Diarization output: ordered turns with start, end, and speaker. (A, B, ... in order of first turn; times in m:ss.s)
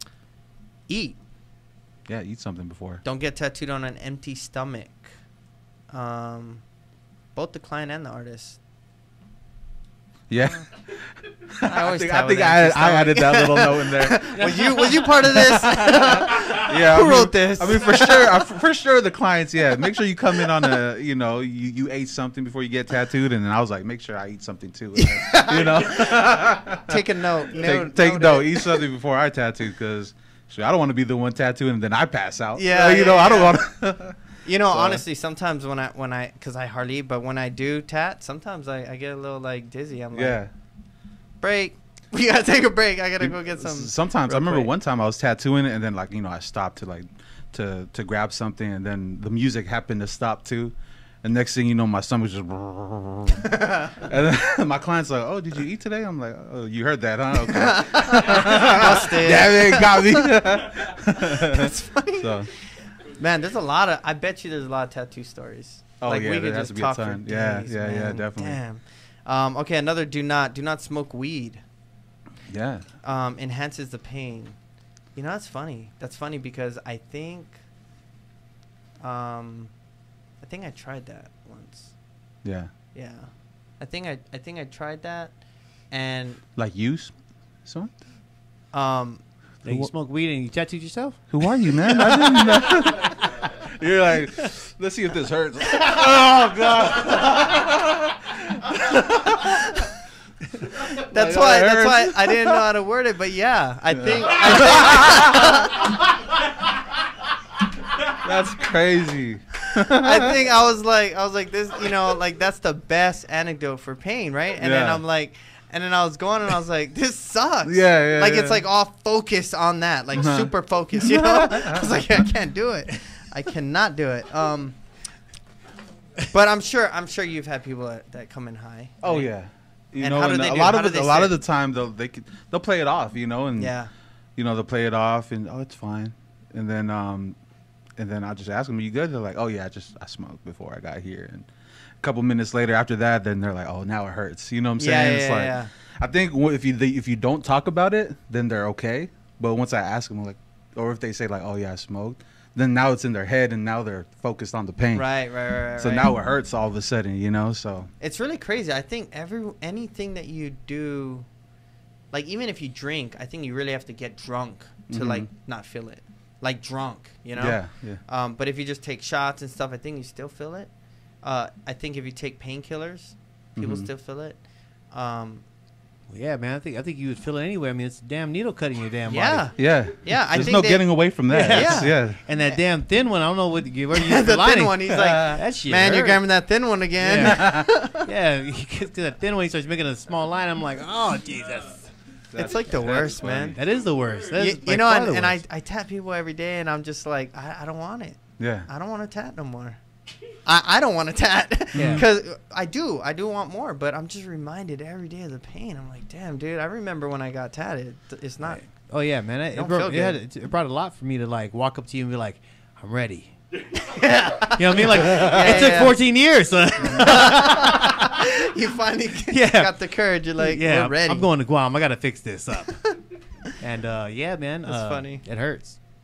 0:00.9-0:01.2 A
0:02.0-0:03.0 B
0:03.0-0:05.2 A
0:05.9-0:06.8 A
0:07.3-0:08.6 A
0:10.3-0:11.0 B
0:11.6-0:27.0 B
0:11.7-0:18.4 A
0:14.4-0:14.7 C
0:25.0-0:28.8 A
0:27.5-0:35.0 B
0:32.6-0:33.7 A
0:34.4-0:40.4 A
0:40.1-0:40.5 B
0:41.4-0:44.7 A
0:43.2-1:02.5 B
0:57.5-1:00.3 A
1:01.3-1:11.7 A
1:06.0-1:08.6 B
1:12.5-1:12.8 B
1:13.0-1:17.6 A
1:19.0-1:19.8 A
1:20.4-1:22.0 A
1:22.4-1:22.7 B
1:22.9-1:26.4 A
1:26.6-1:27.9 B
1:28.7-1:29.2 A
1:29.6-1:32.7 C
1:29.6-1:29.9 B
1:31.3-1:39.6 B
1:40.9-1:45.9 A
1:41.0-1:42.6 B
1:43.9-1:45.6 B
1:48.2-1:50.3 B
1:49.9-2:04.8 A
1:54.6-1:55.0 B
1:57.6-1:58.6 B
2:00.1-2:01.9 B
2:06.3-2:09.3 A
2:09.0-2:13.8 B
2:10.0-2:11.4 A
2:13.6-2:13.9 A
2:14.4-2:17.4 B
2:18.0-2:21.5 B
2:22.0-2:37.9 B
2:24.8-2:25.7 A
2:34.9-2:36.1 A
2:38.0-2:41.3 A
2:42.1-2:55.4 A
2:44.9-2:45.3 B
2:47.3-2:48.0 B
2:53.6-2:53.9 B
2:56.1-2:59.5 C
2:59.1-3:02.6 A
2:59.6-3:02.2 B
3:01.3-3:06.2 C
3:03.9-3:08.0 A
3:07.0-3:11.9 C
3:07.2-3:07.6 B
3:12.3-3:13.6 B
3:12.3-3:13.6 A
3:13.5-3:15.4 C
3:14.3-3:19.8 A
3:18.4-3:18.7 B
3:20.4-3:28.9 A
3:21.7-3:22.0 B
3:21.7-3:22.0 C
3:28.5-3:33.4 C
3:29.5-3:30.2 A
3:33.8-3:36.0 A
3:34.5-3:37.8 C
3:36.8-3:41.3 A
3:39.3-3:43.0 C
3:43.6-3:45.8 C
3:44.6-3:45.3 A